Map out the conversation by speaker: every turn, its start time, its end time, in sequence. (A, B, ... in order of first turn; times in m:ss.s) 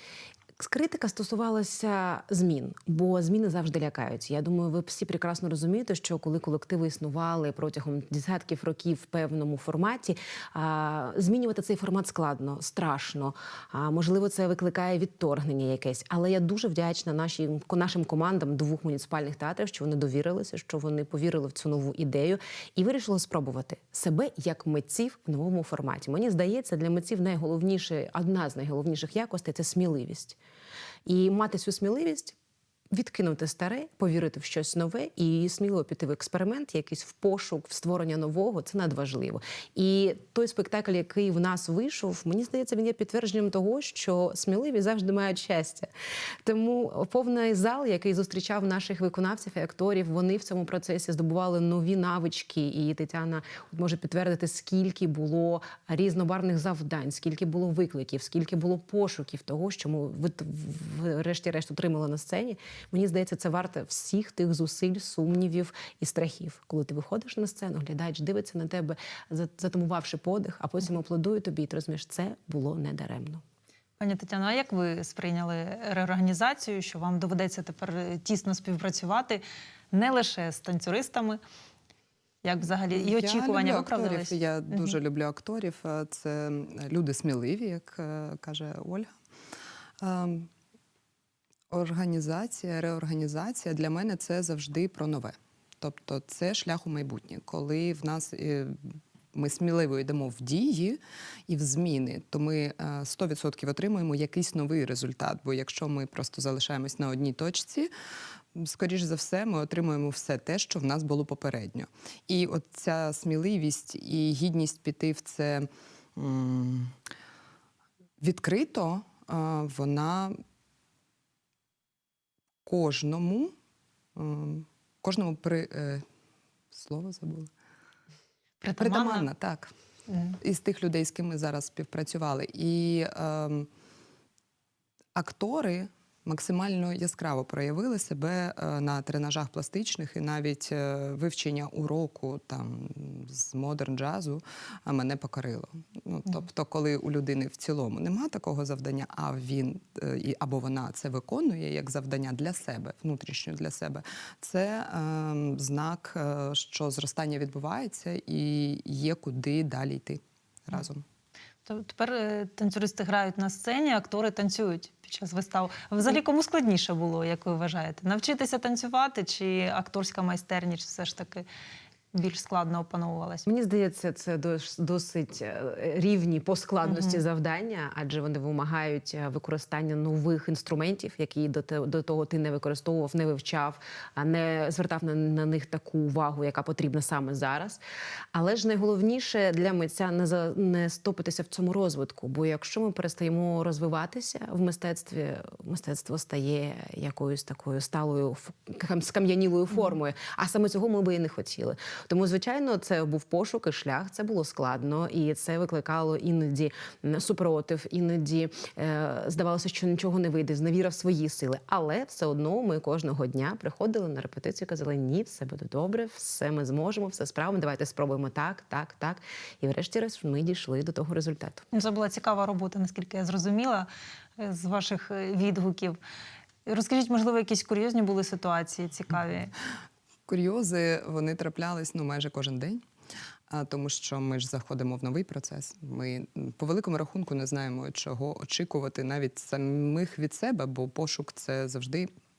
0:00.6-0:30.4 A
0:31.0-0:32.4 A
0:32.9-0:45.9 A
0:46.4-1:13.4 A
1:14.0-1:21.4 B
1:22.4-1:24.9 B
1:22.9-1:29.1 C
1:30.0-1:30.5 C
1:31.7-1:38.8 C
1:39.3-1:47.9 C
1:48.5-1:56.9 C
1:58.2-2:00.4 C
2:02.6-2:03.5 C
2:04.2-2:06.0 C
2:06.7-2:07.5 C
2:08.6-2:09.3 B
2:08.8-2:09.7 C
2:10.1-2:10.4 B
2:10.4-2:13.7 C
2:15.1-2:41.0 C
2:41.6-2:51.4 B
2:52.1-2:53.4 B
2:53.4-3:07.8 A
2:56.8-2:57.2 B
3:08.3-3:41.6 A
3:41.7-3:46.0 B
3:46.6-3:49.5 B
3:50.3-3:52.8 C
3:53.5-4:02.1 C